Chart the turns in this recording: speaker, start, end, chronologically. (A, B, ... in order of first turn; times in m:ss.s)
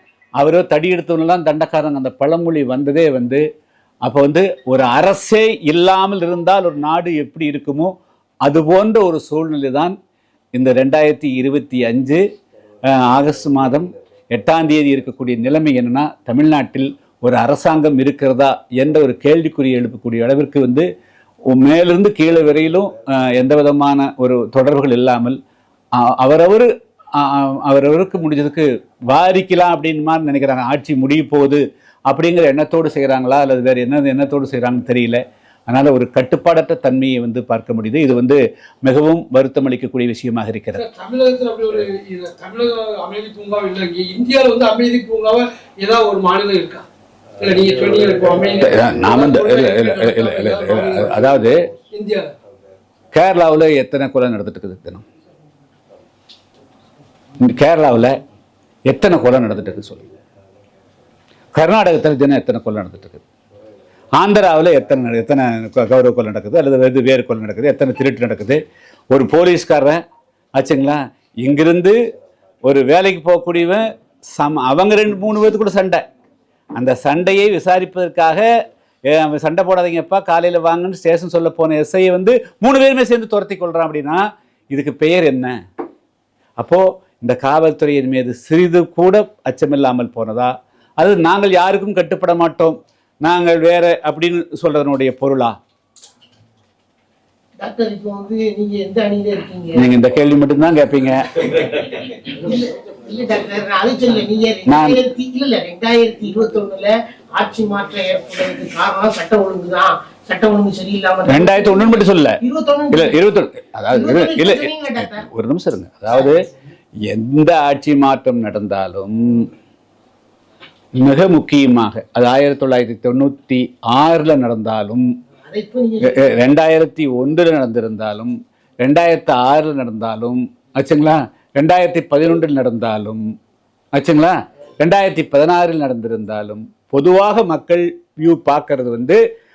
0:00.4-0:03.4 A
0:04.0-0:07.9 A
0:08.4-0:10.0 A
0:10.6-0:12.2 A
0:12.9-0:20.9 A
0:21.5-0:25.4 A
0:26.0-0:40.8 A
0:40.8-0:46.8 B
0:47.4-0:51.3 B
0:48.6-0:51.6 A
0:51.9-0:52.3 B
0:53.1-0:55.0 A
0:57.4-0:58.1 A
0:58.9-1:00.1 A
1:01.5-1:03.2 A
1:04.2-1:08.6 A
1:09.1-1:10.0 A
1:10.6-1:12.0 A
1:12.6-1:16.0 A
1:16.8-1:18.5 A
1:19.1-1:25.6 A
1:26.6-1:35.5 A
1:37.6-1:39.9 C
1:39.8-1:42.0 A
1:42.0-1:53.2 C
1:44.7-1:45.0 A
1:51.3-1:52.4 A
1:52.9-1:56.4 A
1:53.9-1:55.2 C
1:57.0-1:59.5 A
2:01.0-2:05.1 A
2:05.4-2:06.2 C
2:06.0-2:13.2 A
2:14.0-2:19.2 A